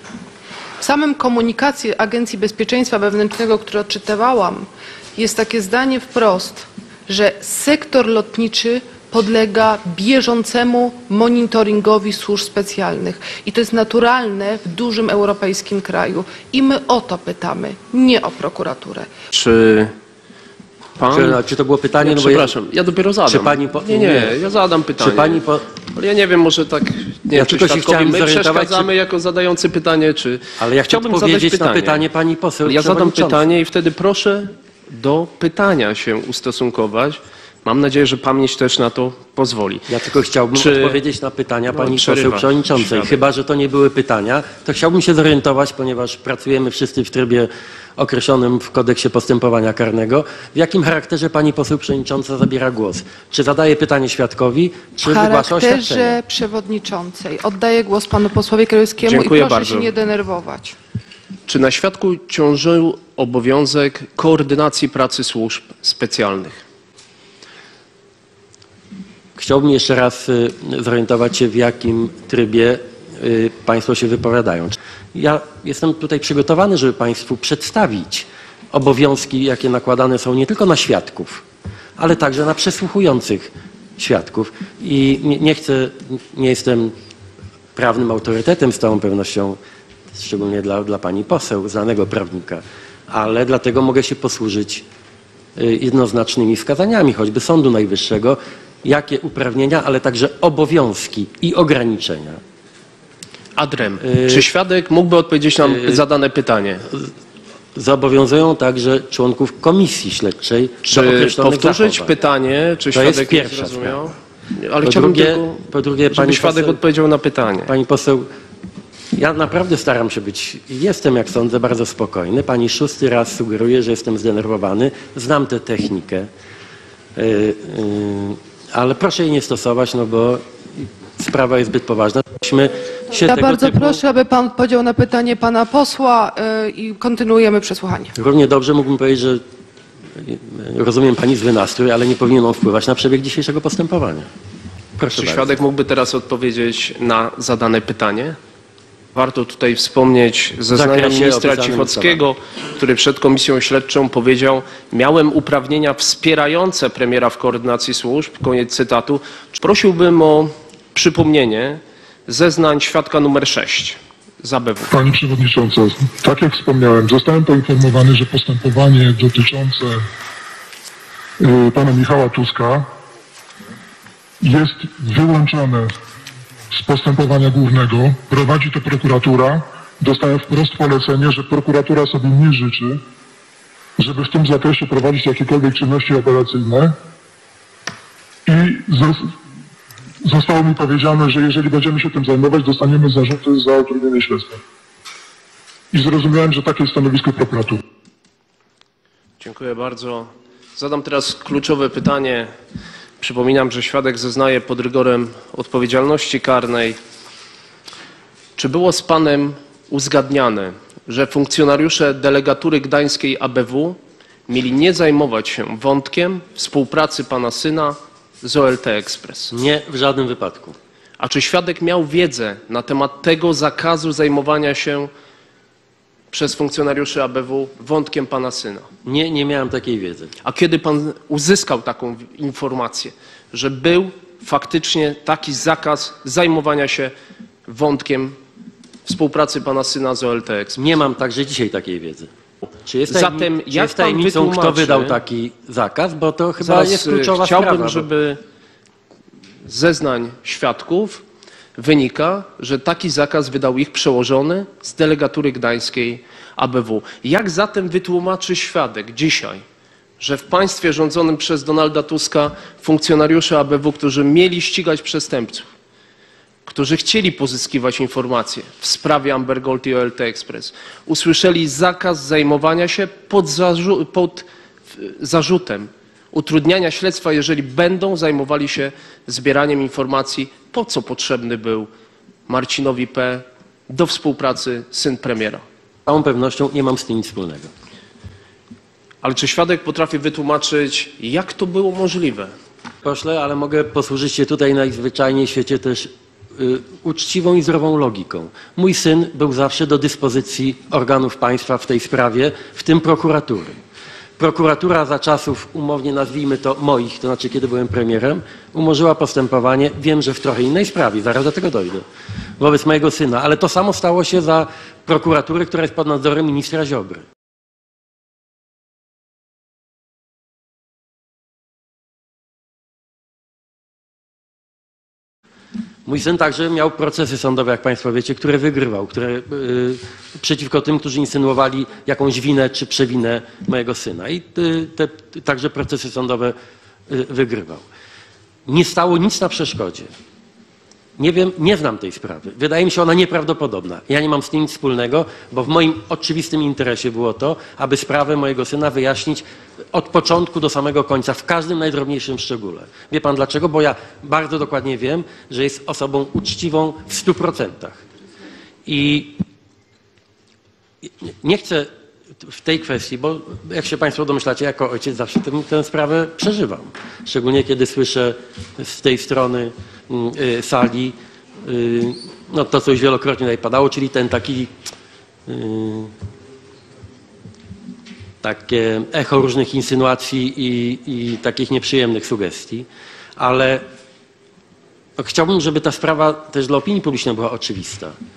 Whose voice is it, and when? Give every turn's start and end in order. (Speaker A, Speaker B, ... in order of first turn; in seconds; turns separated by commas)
Speaker A: 0.8-19.1, Speaker B: 19.3-19.9, Speaker B: 21.0-21.4, Speaker C: 21.1-22.5, Speaker B: 22.0-25.4, Speaker C: 23.3-24.4, Speaker C: 25.0-25.7, Speaker B: 25.9-32.0, Speaker C: 27.3-28.9, Speaker C: 30.6-33.5, Speaker B: 32.6-39.9, Speaker C: 39.9-56.2, Speaker B: 40.5-41.0, Speaker B: 41.7-43.2, Speaker A: 55.0-60.8, Speaker B: 59.0-59.9, Speaker B: 61.5-66.6, Speaker C: 69.4-81.4, Speaker C: 82.0-86.9, Speaker C: 87.8-89.6, Speaker C: 90.1-94.9, Speaker C: 95.6-102.4, Speaker B: 103.6-106.9, Speaker C: 104.0-104.5, Speaker C: 105.6-106.0, Speaker C: 107.8-112.2, Speaker B: 110.9-115.5, Speaker C: 112.9-114.0, Speaker C: 114.8-116.8, Speaker B: 116.1-117.7, Speaker C: 117.6-118.3, Speaker C: 119.2-126.3, Speaker C: 127.2-134.0, Speaker A: 133.2-138.1, Speaker C: 138.2-139.4, Speaker C: 140.2-144.3, Speaker C: 145.0-145.6, Speaker B: 145.2-148.4, Speaker B: 149.2-164.9, Speaker C: 150.7-152.3, Speaker D: 164.9-170.0, Speaker D: 171.4-172.9, Speaker D: 174.4-175.9, Speaker D: 176.7-183.0, Speaker D: 184.0-187.0, Speaker D: 188.5-189.3, Speaker D: 190.2-194.6, Speaker D: 195.9-197.8, Speaker B: 199.4-202.5, Speaker B: 203.2-207.0, Speaker B: 208.6-219.6, Speaker C: 219.5-220.8, Speaker B: 221.2-225.1, Speaker B: 226.3-228.9, Speaker C: 229.1-230.3, Speaker B: 230.4-237.1, Speaker B: 237.7-238.4, Speaker B: 239.1-240.8, Speaker C: 240.8-242.3, Speaker C: 242.8-248.1, Speaker B: 243.1-245.2, Speaker B: 246.6-248.4, Speaker B: 249.7-251.2, Speaker B: 251.8-259.6, Speaker B: 260.2-265.7, Speaker B: 266.7-281.9, Speaker B: 282.5-285.6, Speaker C: 286.1-287.7, Speaker B: 289.2-292.5, Speaker C: 293.0-303.8, Speaker C: 304.4-312.1, Speaker C: 312.6-317.3, Speaker C: 326.1-336.6, Speaker C: 337.1-337.9, Speaker C: 338.7-340.1, Speaker C: 341.2-358.0, Speaker C: 358.9-359.4, Speaker C: 361.0-374.7, Speaker C: 375.5-376.1, Speaker C: 378.4-383.9, Speaker C: 385.2-388.2